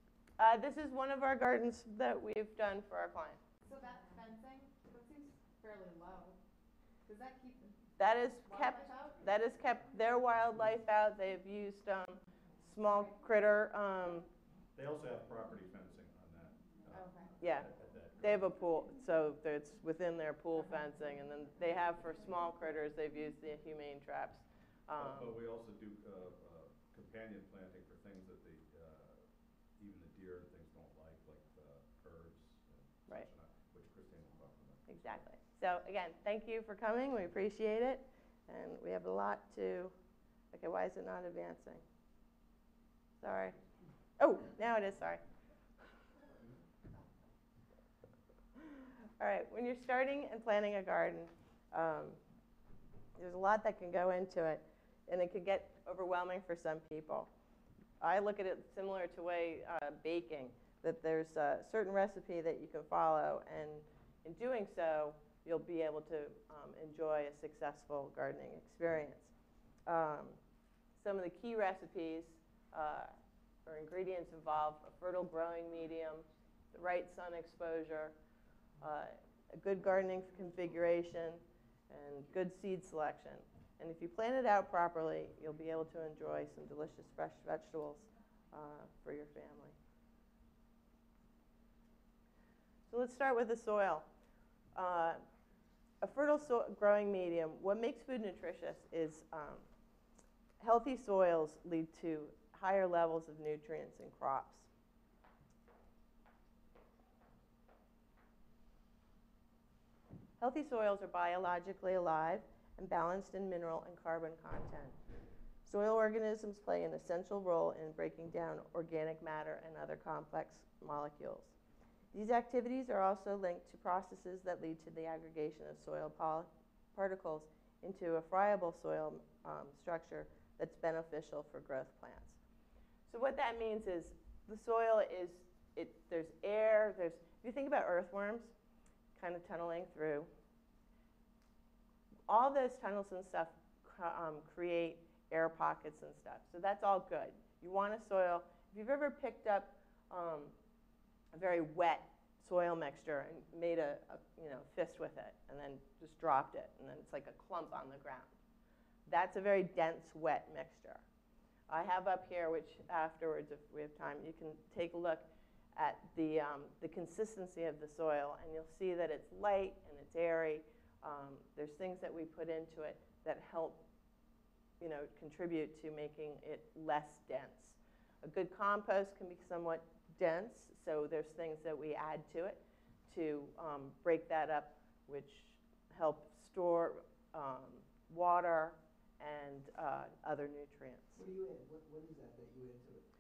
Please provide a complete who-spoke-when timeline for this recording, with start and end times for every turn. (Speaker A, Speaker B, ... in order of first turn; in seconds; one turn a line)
Speaker A: 0.4-3.4
Speaker B: 3.6-6.4
Speaker B: 7.0-7.8
Speaker A: 8.0-14.3
Speaker B: 8.4-9.2
Speaker C: 14.7-18.6
Speaker B: 16.9-17.3
Speaker A: 17.4-17.7
Speaker A: 18.2-25.3
Speaker C: 24.9-35.2
Speaker A: 34.9-39.9
Speaker A: 40.5-41.8
Speaker A: 43.2-43.6
Speaker A: 44.2-45.2
Speaker C: 46.3-46.6
Speaker A: 48.6-52.2
Speaker A: 53.1-57.3
Speaker A: 58.0-69.3
Speaker A: 69.8-70.4
Speaker A: 71.0-73.1
Speaker A: 73.6-78.1
Speaker A: 78.8-89.8
Speaker A: 92.9-94.1
Speaker A: 94.7-95.2
Speaker A: 96.0-99.7
Speaker A: 100.6-104.7
Speaker A: 110.4-115.0
Speaker A: 115.7-121.5
Speaker A: 122.1-132.4
Speaker A: 133.1-138.5
Speaker A: 139.1-140.3
Speaker A: 142.3-150.5
Speaker A: 151.3-158.3
Speaker A: 159.1-161.0
Speaker A: 161.7-173.8
Speaker A: 174.8-191.2
Speaker D: 191.1-193.1